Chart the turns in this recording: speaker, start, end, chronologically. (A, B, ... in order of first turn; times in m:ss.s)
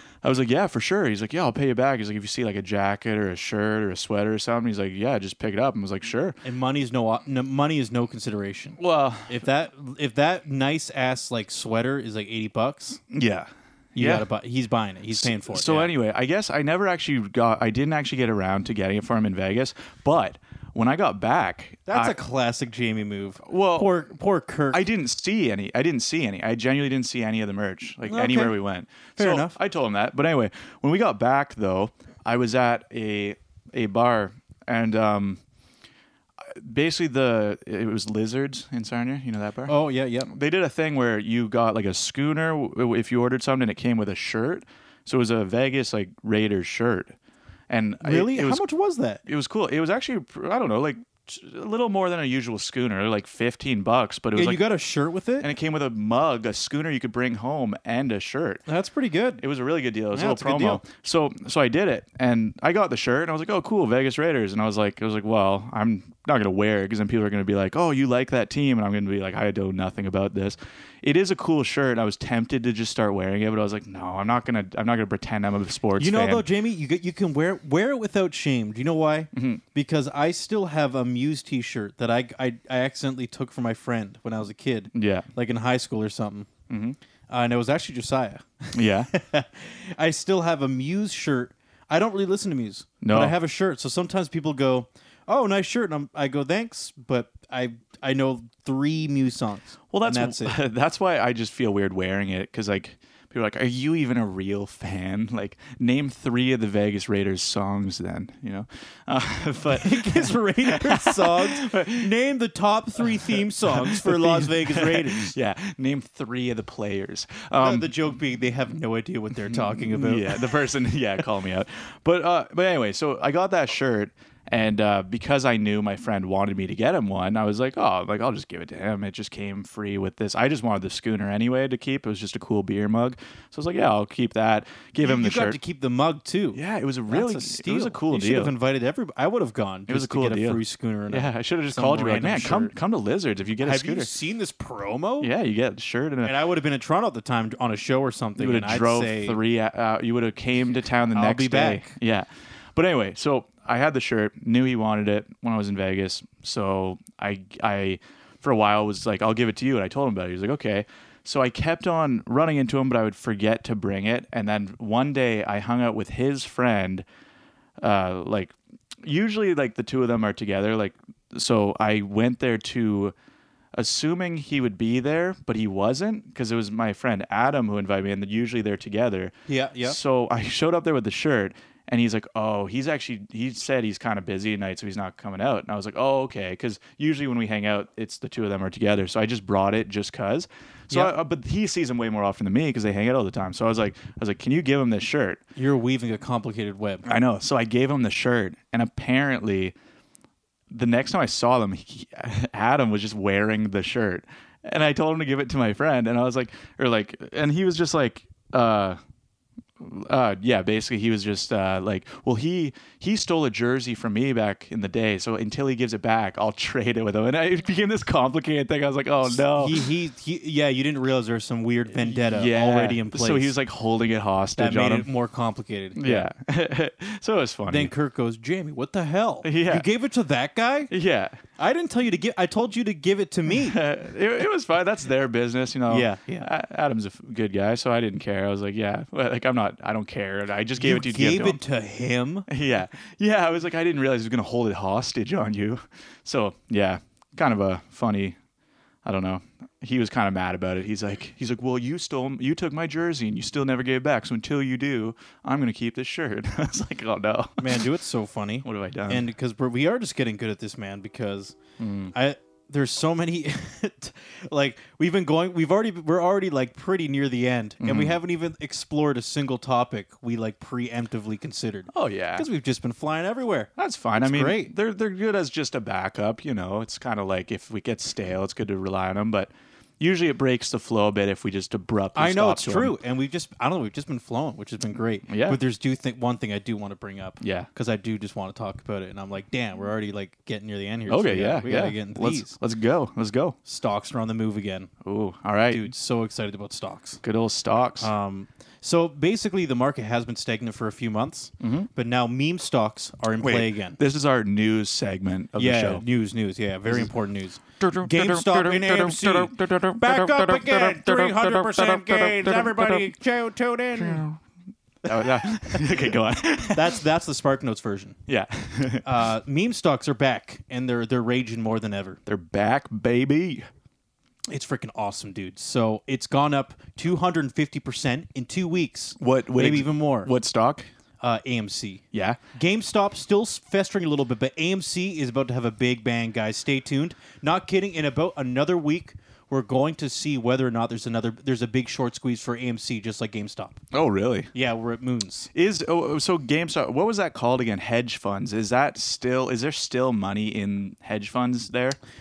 0:00.2-0:06.4 A
0:06.4-0:13.0 B
0:08.8-0:09.4 A
0:13.1-0:14.3 A
0:14.0-0:15.9 B
0:15.1-0:22.2 A
0:21.9-0:24.8 B
0:23.4-0:23.9 A
0:24.7-0:35.4 A
0:28.1-0:28.6 B
0:29.2-0:29.6 B
0:36.4-0:39.8 A
0:39.7-0:40.3 B
0:40.3-0:47.2 A
0:47.7-0:48.6 A
0:48.0-0:49.2 B
0:49.3-0:54.6 A
0:54.4-0:55.5 B
0:55.4-0:58.6 A
0:58.7-0:59.4 B
0:59.4-1:16.5 A
1:00.1-1:00.8 B
1:16.0-1:26.5 B
1:19.4-1:19.6 A
1:24.9-1:25.3 A
1:26.7-1:27.0 A
1:27.3-1:40.6 B
1:28.8-1:29.1 A
1:33.0-1:33.4 A
1:39.9-1:52.1 A
1:49.7-1:55.4 B
1:53.0-1:57.9 A
1:57.6-2:00.6 B
1:59.4-2:15.6 A
2:15.0-2:22.8 B
2:16.5-2:18.5 A
2:19.9-2:24.1 A
2:23.6-2:25.3 B
2:25.2-2:26.4 A
2:26.2-2:29.4 B
2:28.4-2:47.0 A
2:31.1-2:32.0 B
2:47.8-2:53.1 A
2:53.8-2:59.3 A
2:59.5-3:00.0 B
2:59.8-3:15.4 A
3:15.6-3:17.1 B
3:17.0-3:19.8 A
3:20.7-3:29.0 A
3:29.8-3:39.9 A
3:39.3-3:43.6 B
3:42.0-3:45.1 A
3:44.6-3:46.3 B
3:46.0-3:47.9 A
3:47.7-3:50.9 B
3:49.4-3:49.8 A
3:50.9-3:51.4 A
3:51.6-3:53.8 B
3:53.5-4:01.6 A
3:55.9-3:56.5 B
4:00.8-4:02.5 B
4:02.5-4:08.4 A
4:09.0-4:17.8 A
4:17.6-4:21.6 B
4:18.6-4:19.3 A
4:21.8-4:22.1 A
4:22.1-4:34.7 B
4:27.8-4:28.2 A
4:31.9-4:32.5 A
4:33.8-4:43.0 A
4:42.2-4:52.6 B
4:45.3-4:45.6 A
4:47.4-4:47.7 A
4:51.1-4:53.6 A
4:53.6-4:54.9 B
4:55.0-4:55.9 A
4:55.7-4:57.2 B
4:57.2-4:58.1 A
4:58.0-5:04.0 B
5:01.6-5:01.9 A
5:03.4-5:06.0 A
5:05.6-5:14.3 B
5:07.8-5:13.1 A
5:14.0-5:14.4 A
5:15.0-5:17.0 A
5:15.1-5:16.1 B
5:16.6-5:18.2 B
5:18.3-5:19.1 A
5:19.0-5:22.2 B
5:22.3-5:23.7 A
5:24.5-5:30.3 B
5:29.2-5:30.8 A
5:31.2-5:32.0 B
5:32.1-5:32.4 A
5:32.6-5:43.8 B
5:43.9-5:44.5 A
5:44.5-5:45.5 B
5:45.5-5:52.0 A